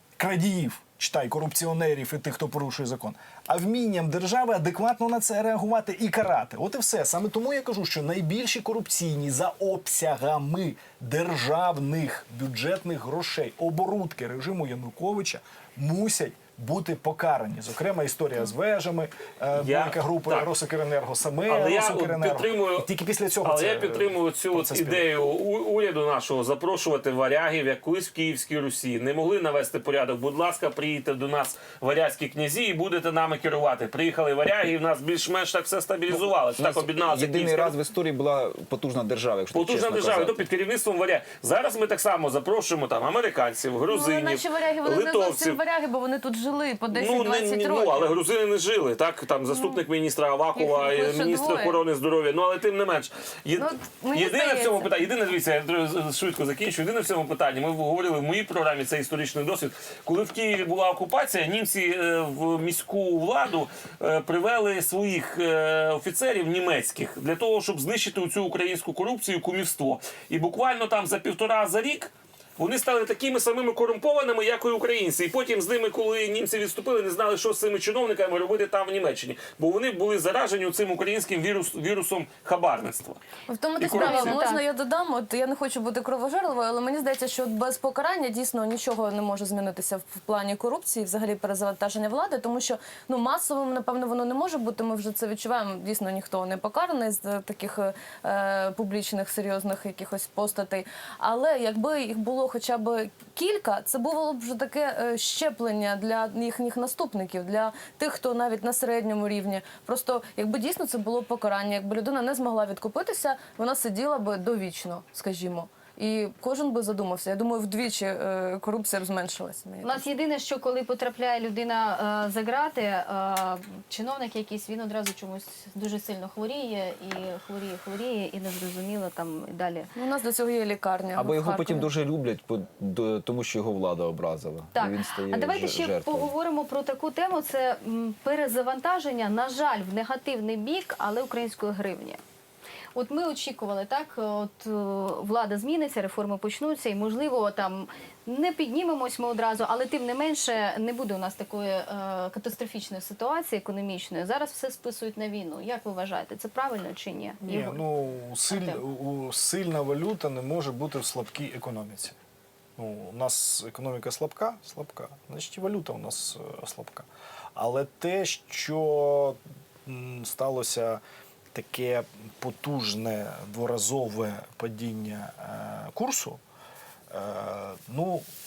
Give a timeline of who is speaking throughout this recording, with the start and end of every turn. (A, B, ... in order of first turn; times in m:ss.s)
0:00.2-0:25.0 A
0:19.5-0:20.5 B
0:21.5-0:22.9 B
0:23.4-0:37.8 B
0:36.1-0:40.5 C
0:39.5-0:45.6 B
0:43.9-0:48.1 D
0:46.9-1:23.2 B
0:49.5-0:49.8 D
0:50.5-0:51.8 D
0:53.6-0:54.9 D
1:23.5-2:00.0 D
1:23.8-1:24.4 B
1:23.9-1:24.6 E
1:59.8-2:09.9 E
2:09.9-2:11.9 D
2:11.1-2:16.3 C
2:14.7-2:22.2 E
2:22.9-2:37.8 E
2:37.4-2:42.2 A
2:38.5-2:38.8 E
2:42.8-2:51.0 A
2:51.5-2:56.4 A
2:57.1-2:58.2 A